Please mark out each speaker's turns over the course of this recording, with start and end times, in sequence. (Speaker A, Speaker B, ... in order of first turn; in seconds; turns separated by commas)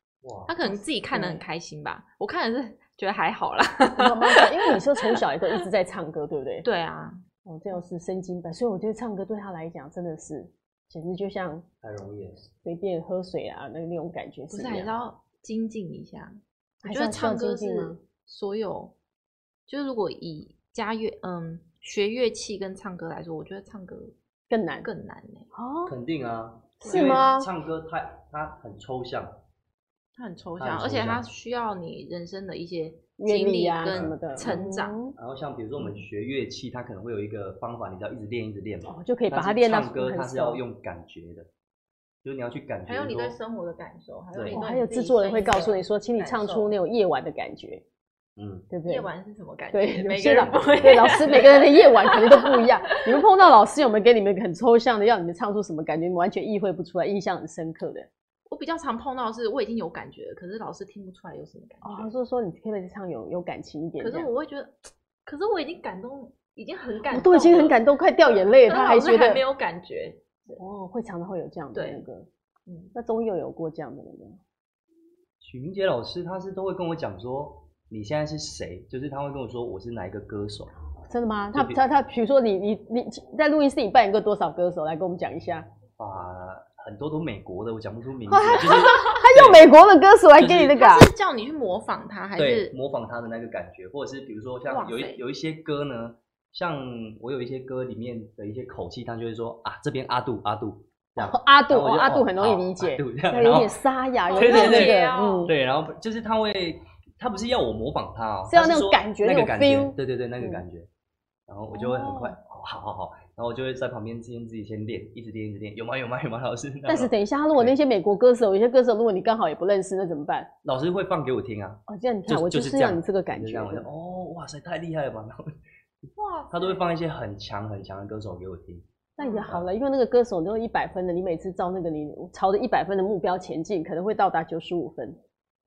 Speaker A: 0.2-0.6, Speaker B: 0.5-5.6, Speaker C: 1.1-1.4, Speaker C: 4.0-6.7, Speaker B: 6.6-7.2, Speaker C: 7.5-11.7, Speaker A: 11.8-12.5, Speaker C: 12.6-14.9, Speaker B: 14.5-18.9, Speaker C: 16.8-18.0, Speaker B: 19.7-24.1, Speaker C: 24.5-24.9, Speaker B: 24.8-25.5, Speaker C: 25.5-25.9, Speaker A: 25.9-29.4, Speaker B: 26.8-27.2, Speaker C: 26.8-27.5, Speaker B: 30.2-35.0, Speaker A: 30.6-31.2, Speaker C: 33.2-35.1, Speaker A: 33.9-34.6, Speaker A: 35.2-41.5, Speaker C: 38.9-40.6, Speaker A: 42.2-43.4, Speaker B: 42.9-46.7, Speaker A: 44.3-44.6, Speaker C: 44.5-47.8, Speaker A: 48.4-48.7, Speaker C: 48.7-49.1, Speaker B: 48.9-53.2, Speaker C: 49.7-58.1, Speaker B: 58.5-62.1, Speaker C: 61.8-64.3, Speaker B: 64.0-67.8, Speaker C: 67.1-69.4, Speaker B: 68.7-70.6, Speaker C: 70.6-72.3, Speaker B: 71.7-72.0, Speaker B: 72.7-72.9, Speaker C: 72.9-74.4, Speaker A: 75.4-80.7, Speaker C: 81.1-85.7, Speaker A: 81.5-81.8, Speaker A: 86.0-89.7, Speaker C: 88.3-91.1, Speaker A: 90.3-90.8, Speaker B: 90.7-92.7, Speaker A: 92.4-103.8, Speaker B: 94.7-95.2, Speaker C: 101.2-105.5, Speaker B: 104.3-105.5, Speaker A: 104.3-110.9, Speaker C: 108.5-110.6, Speaker A: 111.5-117.8, Speaker B: 111.7-112.3, Speaker C: 116.9-120.5, Speaker A: 120.6-125.5, Speaker C: 121.9-123.9, Speaker B: 126.2-126.9, Speaker A: 126.5-128.9, Speaker C: 129.2-135.2, Speaker B: 129.2-129.5